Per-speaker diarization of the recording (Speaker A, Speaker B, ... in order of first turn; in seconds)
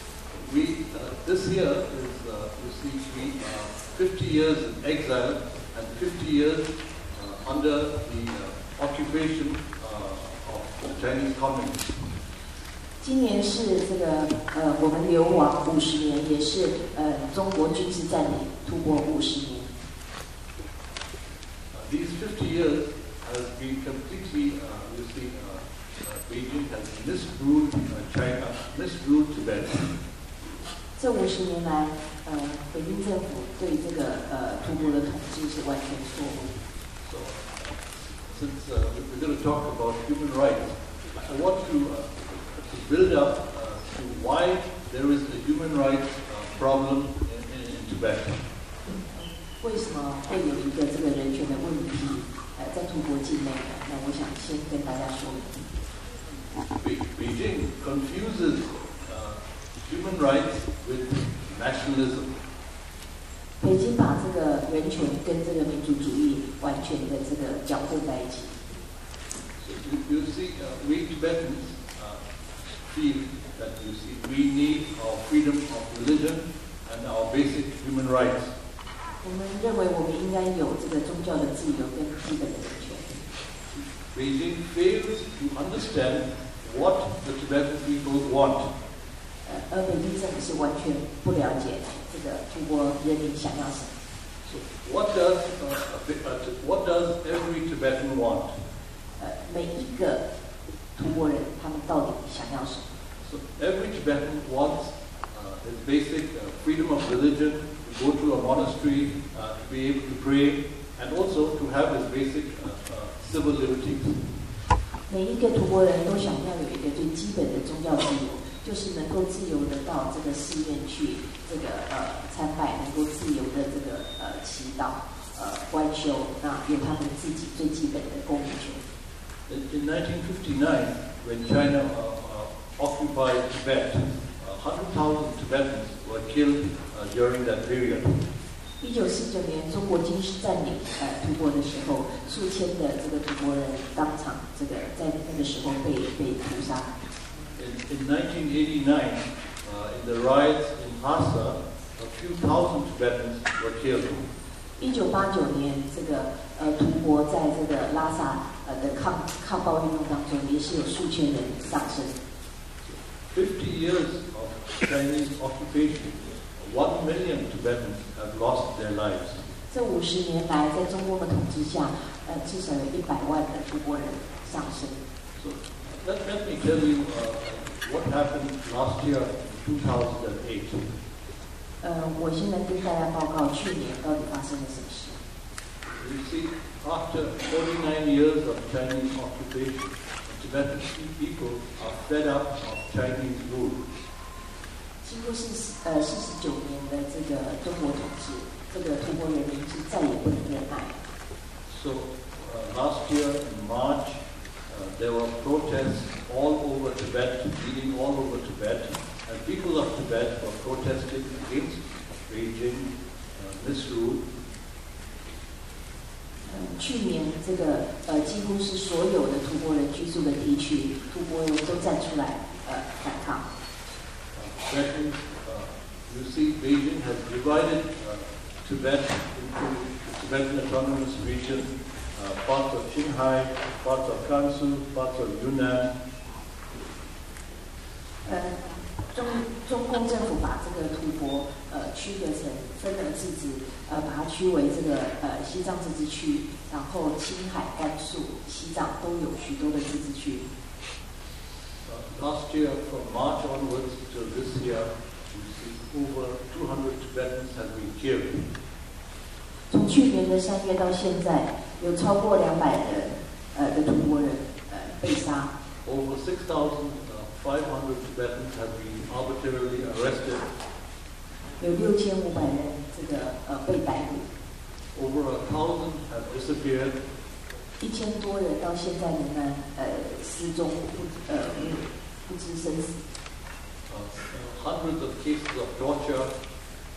Speaker A: 0.3-12.1, 21.7-30.0, 37.0-48.4, 56.8-62.4, 69.6-72.2, 72.8-78.5, 83.7-88.7, 94.5-98.5, 103.2-114.4, 129.5-138.2, 147.6-154.3, 162.9-169.4, 175.4-180.9, 186.0-193.8, 201.7-214.2, 224.3-235.9, 251.8-258.5, 265.9-270.5, 274.9-277.0, 283.9-286.3
Speaker B: 13.0-19.7, 31.0-36.5, 49.0-55.7, 63.6-68.6, 79.2-83.2, 89.4-93.9, 99.2-100.2, 101.0-102.9, 115.1-128.8, 138.8-146.9, 154.8-162.2, 169.7-175.0, 181.8-185.2, 195.0-201.0, 216.5-223.5, 238.2-250.5, 259.7-265.5, 271.6-274.3, 277.8-283.0